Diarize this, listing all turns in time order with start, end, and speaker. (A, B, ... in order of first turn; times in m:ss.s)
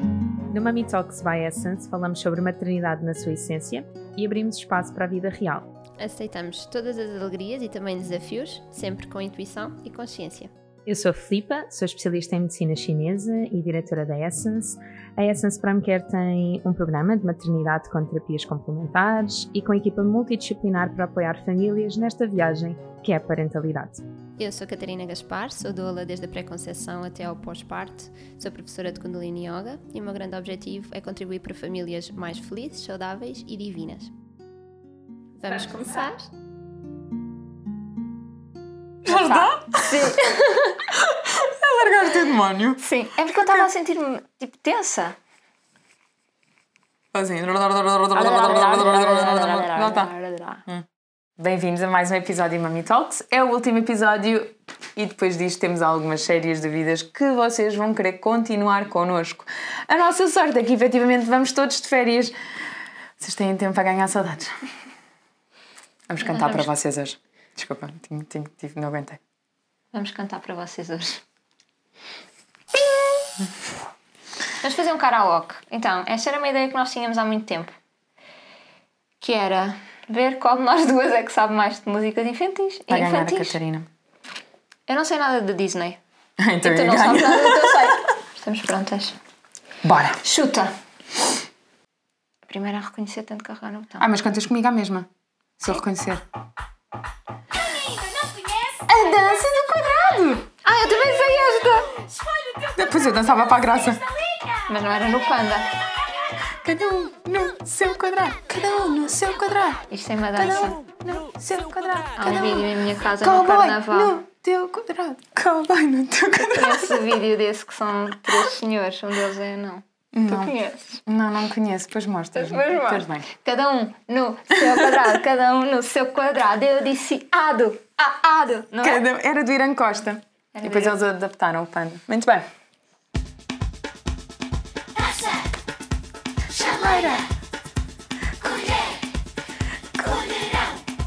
0:00.5-0:05.6 A
0:06.0-0:10.5 B
0:10.8-0:24.0 A
0:24.4-0:34.1 B
0:35.4-0:36.1 B
0:35.4-0:36.2 C
0:39.0-0:40.2 D
0:39.1-0:40.9 C
0:40.9-0:43.7 D
0:42.8-0:45.2 C
0:47.1-0:50.1 D
0:48.1-0:50.6 C
0:51.4-1:02.3 D
1:03.2-1:04.5 D
1:06.1-1:09.2 D
1:06.2-1:06.7 C
1:09.9-1:11.2 C
1:14.6-1:17.7 C
1:19.2-1:23.6 C
1:22.9-1:23.9 D
1:24.9-1:26.0 C
1:26.4-1:28.0 D
1:26.6-1:29.2 C
1:29.8-1:30.2 D
1:30.2-1:30.7 C
1:32.4-1:34.1 C
1:34.0-1:35.1 D
1:35.6-1:36.2 D
1:38.8-1:40.5 D
1:40.6-1:41.9 C
1:42.6-1:44.0 D
1:44.6-1:45.7 C
1:46.6-1:49.8 D
1:49.9-1:50.8 C
1:50.3-1:52.7 D
1:52.2-1:54.2 C
1:53.2-1:57.1 D
1:56.4-2:01.0 C
2:00.1-2:00.5 D
2:01.0-2:03.2 D
2:02.3-2:09.0 C
2:08.8-2:12.4 D
2:10.5-2:11.0 C
2:16.5-2:17.3 D
2:18.4-2:18.8 D
2:20.0-2:20.7 D